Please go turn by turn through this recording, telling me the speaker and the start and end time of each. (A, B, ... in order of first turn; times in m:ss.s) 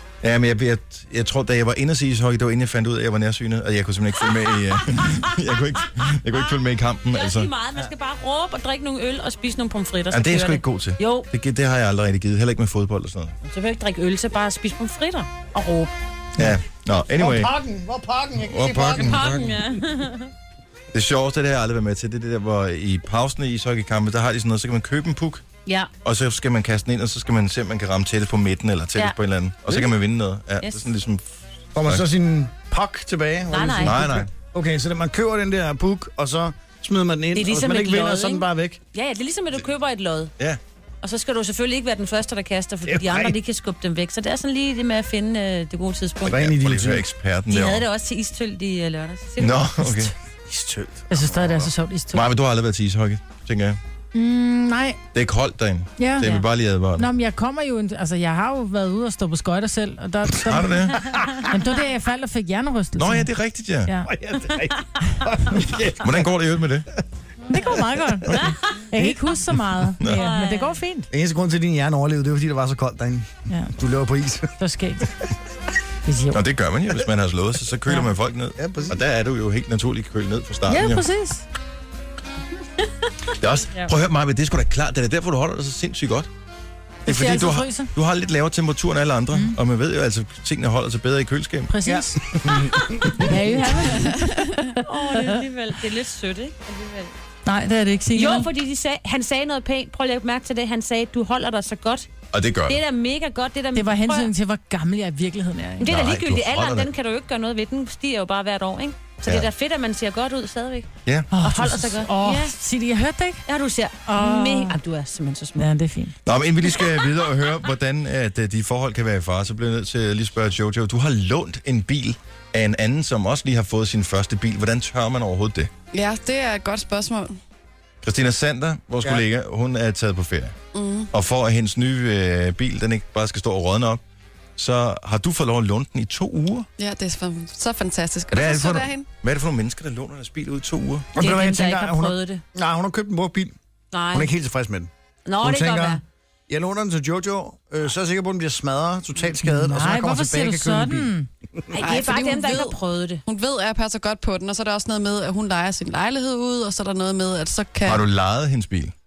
0:00.2-0:07.5 A
0:04.7-0:06.6 B
0:07.1-0:11.3 B
0:10.1-0:13.4 A
0:13.4-0:15.9 B
0:16.4-0:17.5 A
0:17.2-0:19.3 C
0:18.4-0:19.5 A
0:19.0-0:20.3 B
0:20.9-0:25.4 A
0:25.7-0:25.9 B
0:26.0-0:31.3 A
0:31.8-0:38.8 C
0:33.5-0:34.0 B
0:33.8-0:34.3 A
0:37.3-0:40.3 B
0:41.0-0:46.5 B
0:42.9-0:43.4 C
0:46.3-0:47.0 C
0:46.3-0:47.8 A
0:47.5-0:49.7 B
0:49.4-0:50.1 A
0:50.5-0:51.7 C
0:51.1-0:52.3 D
0:52.1-0:53.8 A
0:54.1-0:55.0 D
0:55.1-0:57.1 A
0:56.0-0:56.3 D
0:57.0-1:03.3 D
1:00.4-1:01.0 A
1:01.1-1:01.4 C
1:03.0-1:03.9 A
1:04.1-1:06.3 C
1:06.0-1:06.9 A
1:07.5-1:11.1 D
1:08.4-1:08.7 B
1:10.1-1:10.8 B
1:11.1-1:14.5 C
1:13.5-1:13.8 D
1:14.6-1:15.2 D
1:16.1-1:16.4 D
1:16.3-1:21.0 A
1:18.6-1:19.0 C
1:20.7-1:21.4 D
1:23.4-1:26.3 A
1:27.1-1:27.9 D
1:27.1-1:31.8 A
1:31.7-1:32.6 D
1:31.9-1:33.3 C
1:33.1-1:35.4 D
1:34.0-1:34.5 E
1:34.8-1:37.2 B
1:37.5-1:38.5 D
1:38.2-1:42.1 B
1:42.3-1:42.8 A
1:42.7-1:44.3 B
1:43.8-1:45.9 D
1:45.8-1:50.9 B
1:45.8-1:46.9 A
1:51.3-1:53.4 D
1:51.4-1:52.6 B
1:53.5-1:55.7 B
1:54.0-1:54.8 D
1:55.6-1:56.2 D
1:56.2-2:05.7 A
1:56.8-1:57.0 B
2:05.9-2:07.4 E
2:08.0-2:10.6 A
2:10.7-2:11.1 E
2:11.1-2:14.0 A
2:14.6-2:16.7 A
2:16.8-2:19.0 E
2:18.3-2:21.1 A
2:21.1-2:23.6 C
2:21.2-2:22.4 B
2:23.9-2:24.3 B
2:24.1-2:24.9 C
2:25.3-2:26.0 B
2:25.4-2:31.1 C
2:29.4-2:31.3 D
2:31.7-2:33.2 B
2:31.8-2:38.0 E
2:37.8-2:38.9 A